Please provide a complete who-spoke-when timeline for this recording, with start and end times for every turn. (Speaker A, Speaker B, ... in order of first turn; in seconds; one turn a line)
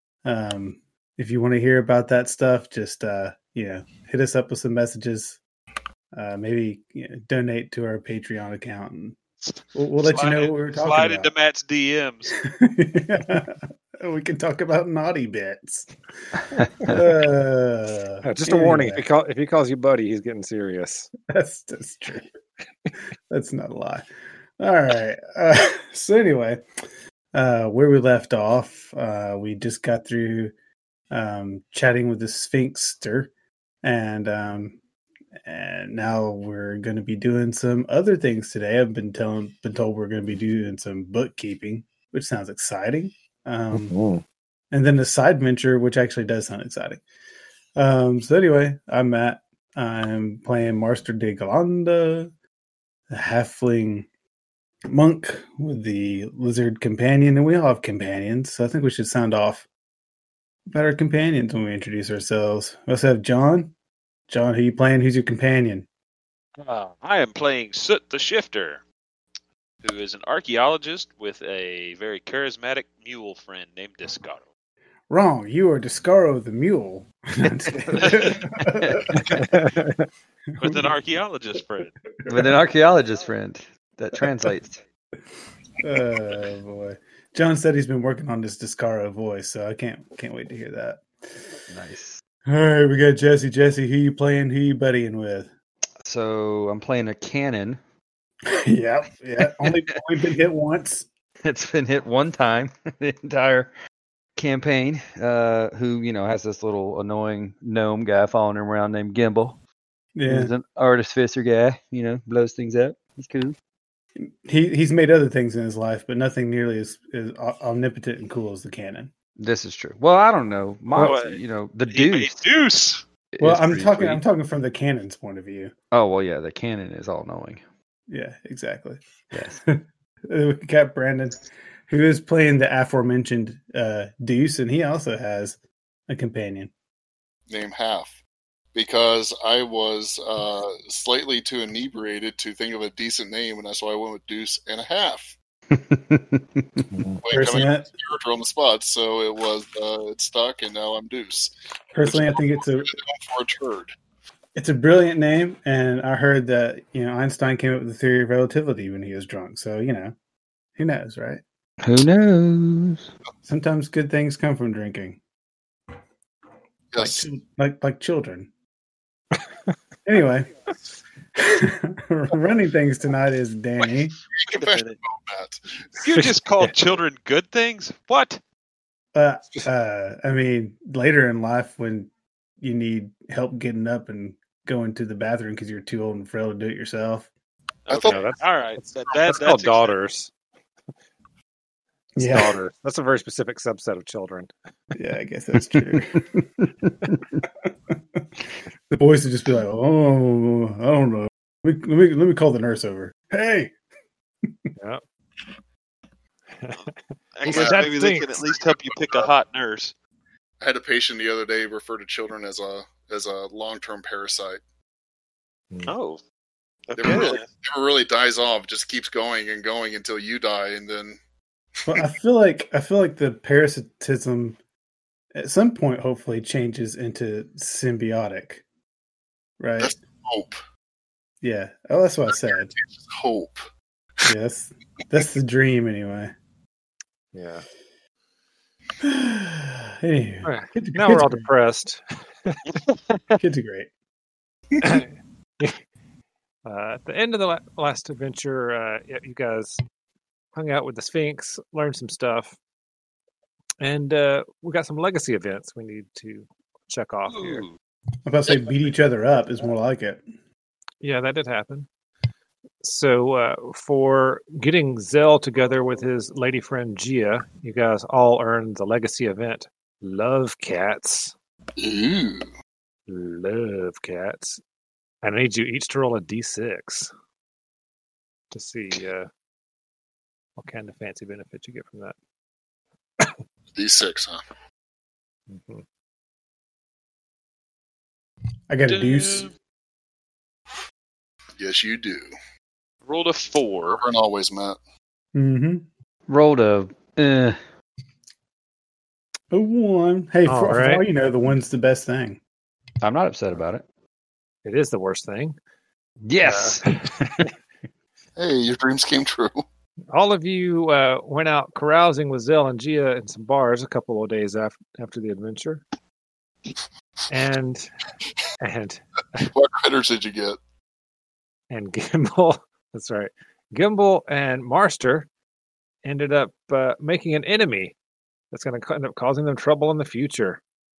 Speaker A: 0.2-5.4
Speaker A: 6.1-9.2
Speaker B: 9.4-12.3
Speaker A: 9.7-11.3
Speaker A: 12.5-19.0
Speaker C: 16.6-17.0
Speaker D: 18.2-21.1
Speaker A: 21.3-22.3
Speaker A: 23.3-24.1
Speaker A: 24.6-26.6
Speaker A: 27.3-30.5
Speaker A: 31.1-33.3
Speaker A: 33.8-34.8
Speaker A: 35.4-43.9
Speaker D: 43.7-44.2
Speaker A: 44.7-47.0
Speaker A: 47.8-52.3
Speaker A: 53.1-54.1
Speaker A: 54.9-59.6
Speaker A: 60.7-63.7
Speaker A: 64.3-65.8
Speaker B: 66.6-68.8
Speaker B: 69.8-74.4
Speaker A: 75.1-79.5
Speaker B: 77.9-78.4
Speaker C: 78.8-79.4
Speaker D: 79.3-80.1
Speaker A: 80.5-80.9
Speaker B: 80.6-81.9
Speaker A: 82.2-82.5
Speaker C: 82.2-84.8
Speaker A: 85.8-91.0
Speaker C: 91.7-92.2
Speaker A: 92.5-95.5
Speaker C: 96.0-97.8
Speaker A: 98.5-101.0
Speaker C: 99.4-99.8
Speaker C: 101.4-103.7
Speaker C: 104.3-109.6
Speaker A: 110.1-110.5
Speaker C: 110.2-113.5
Speaker A: 114.2-119.1
Speaker C: 119.4-122.4
Speaker B: 120.9-123.0
Speaker C: 123.3-124.2
Speaker A: 123.4-125.7
Speaker C: 125.9-127.6
Speaker A: 128.1-129.7
Speaker C: 129.3-129.6
Speaker A: 130.3-135.6
Speaker A: 136.1-136.7
Speaker E: 137.5-138.1
Speaker E: 138.7-145.3
Speaker C: 145.7-146.8
Speaker D: 146.9-147.2
Speaker E: 147.2-153.9
Speaker A: 147.3-147.9
Speaker A: 151.9-152.9
Speaker A: 154.5-160.1
Speaker A: 160.8-161.4
Speaker C: 161.8-163.1
Speaker A: 163.4-165.2
Speaker E: 166.9-167.2
Speaker A: 167.0-168.5
Speaker A: 170.1-170.5
Speaker A: 171.3-174.2
Speaker E: 174.3-175.8
Speaker B: 174.4-175.0
Speaker D: 176.0-176.7
Speaker B: 176.0-178.4
Speaker A: 179.1-182.1
Speaker A: 182.6-187.3
Speaker B: 187.9-189.9
Speaker E: 187.9-188.2
Speaker D: 188.0-190.3
Speaker A: 192.2-192.6
Speaker D: 192.2-194.5
Speaker A: 194.9-196.5
Speaker C: 195.6-196.0
Speaker A: 197.1-197.4
Speaker A: 198.9-203.7
Speaker B: 206.8-209.9
Speaker D: 207.4-208.3
Speaker E: 207.5-207.9
Speaker E: 208.5-209.3
Speaker E: 210.6-214.6
Speaker B: 215.8-216.2
Speaker B: 216.9-217.4
Speaker E: 216.9-221.2
Speaker D: 217.1-217.4
Speaker A: 221.9-224.6
Speaker A: 225.3-228.6
Speaker A: 229.6-229.9
Speaker E: 229.8-230.6
Speaker A: 231.4-232.7
Speaker E: 232.3-233.6
Speaker A: 234.2-236.3
Speaker D: 237.3-237.6
Speaker A: 239.0-241.5
Speaker D: 240.4-242.6
Speaker B: 242.7-243.4
Speaker A: 243.4-243.9
Speaker D: 244.8-245.8
Speaker D: 246.7-249.8
Speaker D: 250.5-252.6
Speaker D: 253.8-257.6
Speaker B: 257.3-257.8
Speaker A: 258.2-260.2
Speaker D: 261.0-261.9
Speaker D: 262.8-271.3
Speaker E: 271.8-272.5
Speaker D: 273.1-274.6
Speaker D: 275.2-277.1
Speaker D: 278.5-279.3
Speaker D: 280.6-282.1
Speaker E: 283.7-284.4
Speaker D: 285.5-285.8
Speaker A: 288.7-289.5
Speaker B: 288.9-289.5
Speaker E: 291.6-292.3
Speaker B: 293.1-294.0
Speaker E: 293.9-294.8
Speaker A: 295.3-295.8
Speaker C: 296.3-297.6
Speaker A: 299.5-302.4
Speaker D: 300.4-301.0
Speaker C: 303.0-303.8
Speaker D: 304.6-305.6
Speaker C: 306.2-307.4
Speaker D: 306.4-307.4
Speaker E: 308.4-309.6
Speaker D: 310.1-315.8
Speaker D: 317.3-317.9
Speaker D: 318.6-319.5
Speaker E: 319.5-320.6
Speaker D: 321.7-325.3
Speaker D: 326.0-327.9
Speaker D: 328.5-330.6